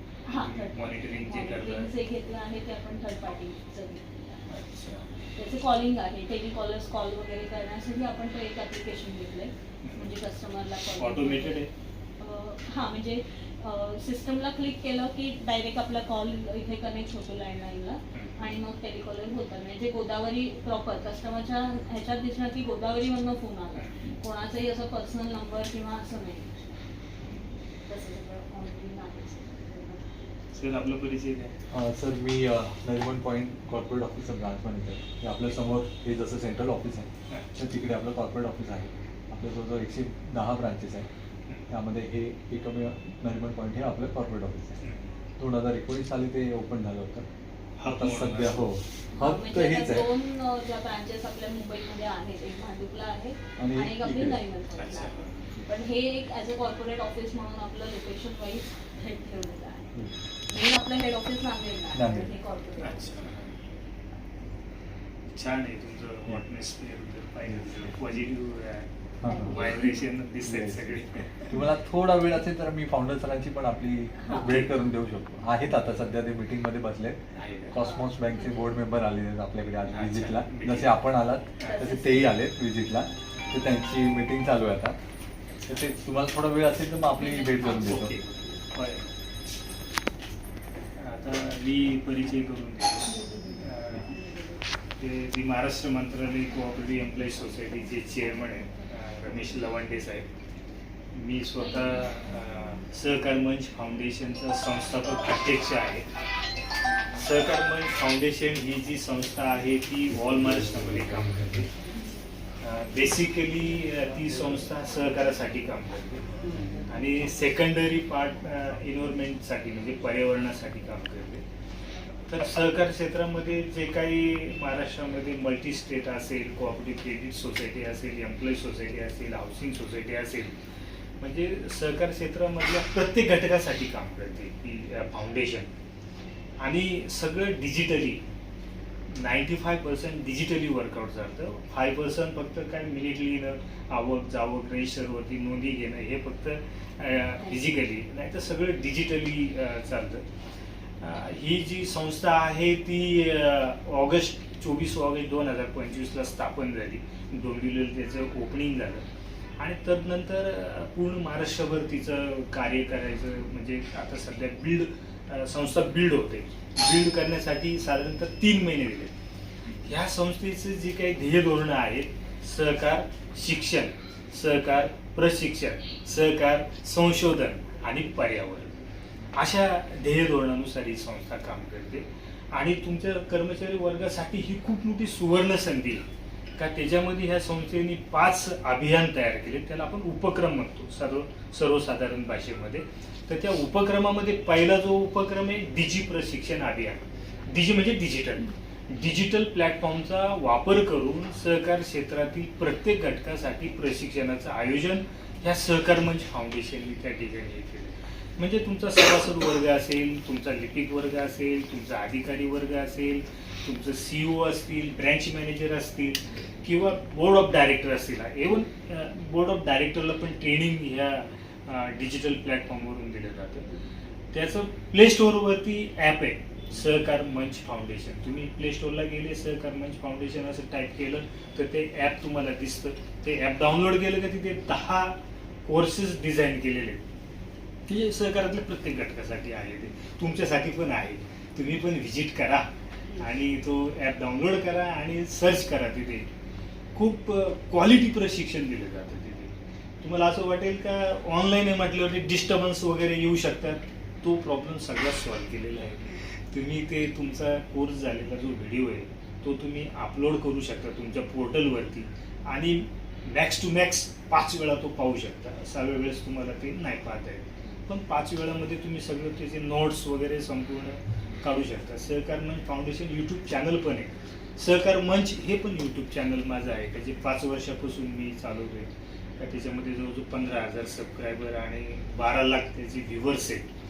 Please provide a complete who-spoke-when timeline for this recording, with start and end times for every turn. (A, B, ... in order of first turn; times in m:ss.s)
0:00.3-0:04.5 A
0:00.4-0:01.9 B
0:04.5-0:05.1 B
0:05.3-0:11.6 A
0:09.8-0:10.1 B
0:11.0-0:11.7 B
0:12.2-0:26.8 A
0:18.1-0:18.4 B
0:23.7-0:24.1 B
0:27.2-0:27.5 B
0:27.8-0:30.2 A
0:30.5-0:31.5 B
0:31.7-0:41.1 C
0:41.7-0:44.8 C
0:44.8-0:45.1 B
0:45.4-0:47.3 C
0:47.8-0:48.7 B
0:47.8-0:50.1 C
0:49.1-0:59.9 A
0:53.6-0:54.4 C
0:54.8-0:55.4 B
1:00.5-1:03.2 A
1:01.9-1:02.3 C
1:02.8-1:03.6 B
1:05.3-1:11.5 B
1:07.5-1:07.9 C
1:09.2-1:09.6 C
1:09.2-1:10.1 A
1:10.4-1:10.8 C
1:11.4-1:17.2 C
1:14.2-1:14.6 A
1:14.3-1:14.7 B
1:17.3-1:17.8 B
1:17.7-1:25.0 C
1:17.8-1:18.8 A
1:19.9-1:20.9 B
1:21.6-1:21.9 B
1:21.6-1:22.3 A
1:25.7-1:28.1 C
1:27.2-1:28.0 A
1:27.7-1:29.1 B
1:31.0-1:34.2 B
1:35.0-1:40.3 B
1:41.1-1:46.1 B
1:47.2-1:51.7 B
1:52.6-1:56.3 B
1:56.9-2:01.4 B
2:02.3-2:10.6 B
2:11.2-2:15.7 B
2:16.6-2:18.2 B
2:19.1-2:30.2 B
2:27.4-2:27.7 A
2:31.0-2:39.0 B
2:39.6-2:49.1 B
2:49.8-2:58.8 B
2:59.3-3:06.0 B
3:06.6-3:43.7 B
3:44.3-3:57.0 B
3:57.9-4:06.3 B
4:06.9-4:43.7 B